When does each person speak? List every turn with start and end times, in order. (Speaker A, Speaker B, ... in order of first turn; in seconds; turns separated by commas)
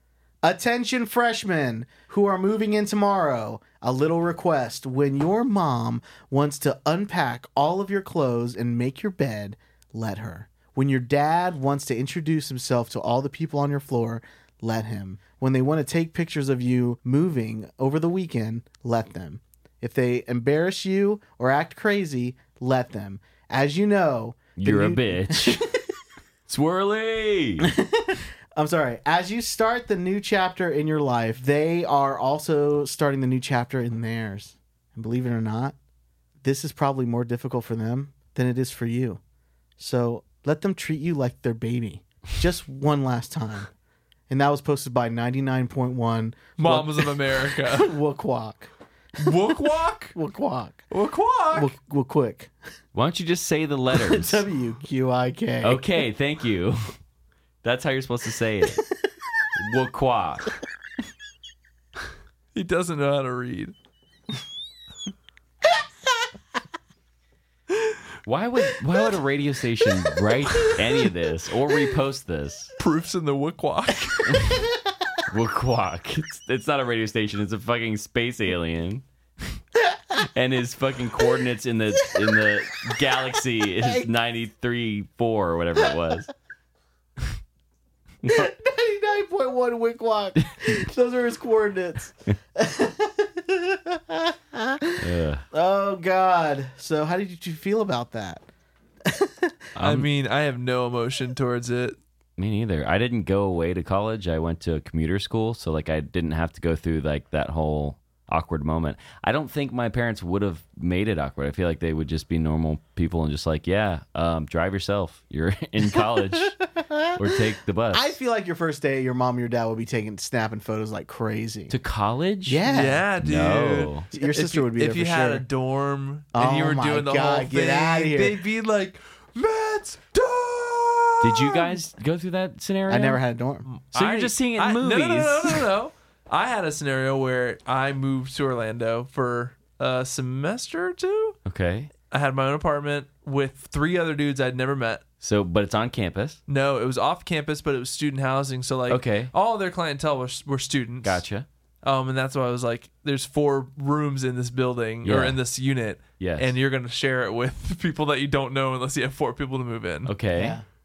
Speaker A: 0.4-25.8, Speaker B: 24.6-25.6, Speaker B: 26.5-27.7, Speaker A: 27.6-35.8, Speaker A: 36.4-39.2, Speaker A: 39.8-43.7, Speaker A: 44.3-47.1, Speaker C: 46.6-48.0, Speaker A: 47.7-48.7, Speaker C: 49.2-50.1, Speaker A: 50.1-50.8, Speaker C: 50.9-51.7, Speaker A: 51.5-52.5, Speaker B: 52.9-54.4, Speaker A: 53.9-55.9, Speaker B: 55.6-56.8, Speaker B: 57.6-58.8, Speaker B: 59.6-60.5, Speaker C: 62.5-63.7, Speaker B: 68.3-72.7, Speaker C: 72.8-74.3, Speaker B: 74.3-74.6, Speaker B: 75.3-79.0, Speaker B: 80.2-86.3, Speaker A: 83.8-84.1, Speaker A: 88.2-98.4, Speaker B: 95.0-95.4, Speaker A: 99.1-99.6, Speaker B: 99.8-100.1, Speaker C: 99.8-102.0, Speaker B: 102.4-116.5, Speaker A: 116.3-117.3, Speaker B: 117.2-118.2, Speaker A: 117.9-121.8, Speaker B: 121.7-124.1, Speaker A: 122.5-123.0, Speaker C: 122.7-131.8, Speaker A: 124.1-125.5, Speaker A: 126.3-128.4, Speaker B: 131.2-133.2, Speaker A: 132.9-133.7, Speaker C: 133.7-141.4, Speaker B: 133.9-135.7, Speaker B: 141.5-141.9, Speaker C: 142.1-145.0, Speaker B: 145.2-146.4, Speaker C: 146.5-151.2, Speaker B: 148.9-149.3, Speaker B: 151.0-151.5, Speaker C: 151.8-160.1, Speaker B: 155.0-155.4, Speaker B: 156.2-156.5, Speaker B: 160.1-160.6, Speaker A: 160.3-160.6